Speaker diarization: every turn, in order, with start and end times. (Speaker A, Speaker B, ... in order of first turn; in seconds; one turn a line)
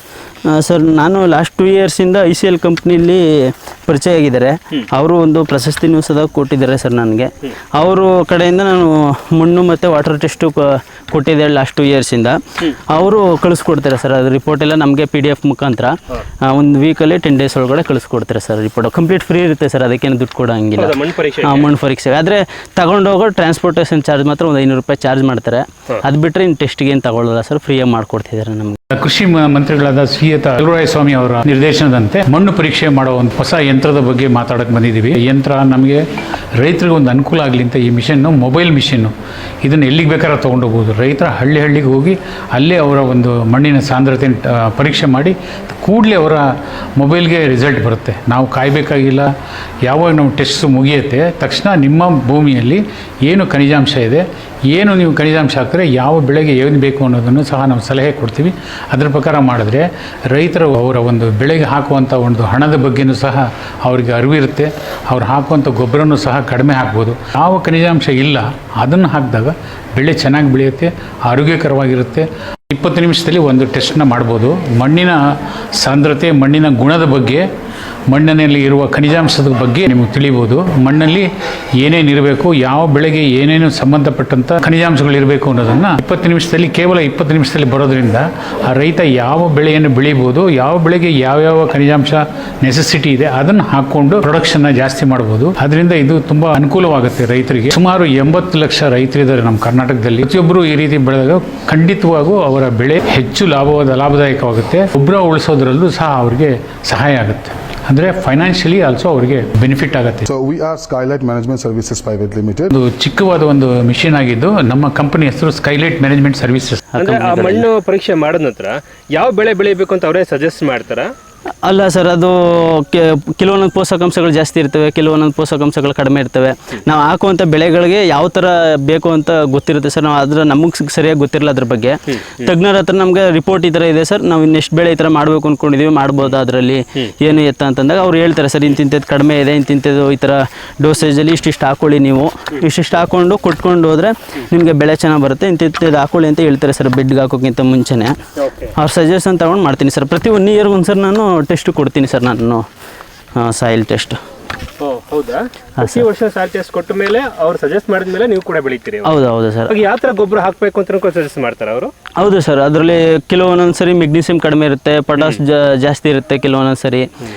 Speaker A: 0.5-28.8
Speaker B: 20.8-21.7
Speaker C: 28.9-36.0
Speaker C: 36.6-49.3
Speaker C: 49.8-75.2
Speaker C: 75.8-77.4
Speaker C: 78.1-81.3
Speaker C: 81.8-110.3
Speaker D: 110.3-112.7
Speaker C: 112.7-116.9
Speaker A: 116.9-117.7
Speaker B: 117.0-121.1
Speaker A: 121.6-148.2
Speaker B: 132.1-132.5
Speaker B: 148.4-148.7
Speaker A: 148.8-152.7
Speaker A: 153.3-154.2
Speaker B: 154.8-159.2
Speaker A: 155.8-156.0
Speaker A: 159.0-159.8
Speaker B: 159.7-161.9
Speaker A: 162.2-167.1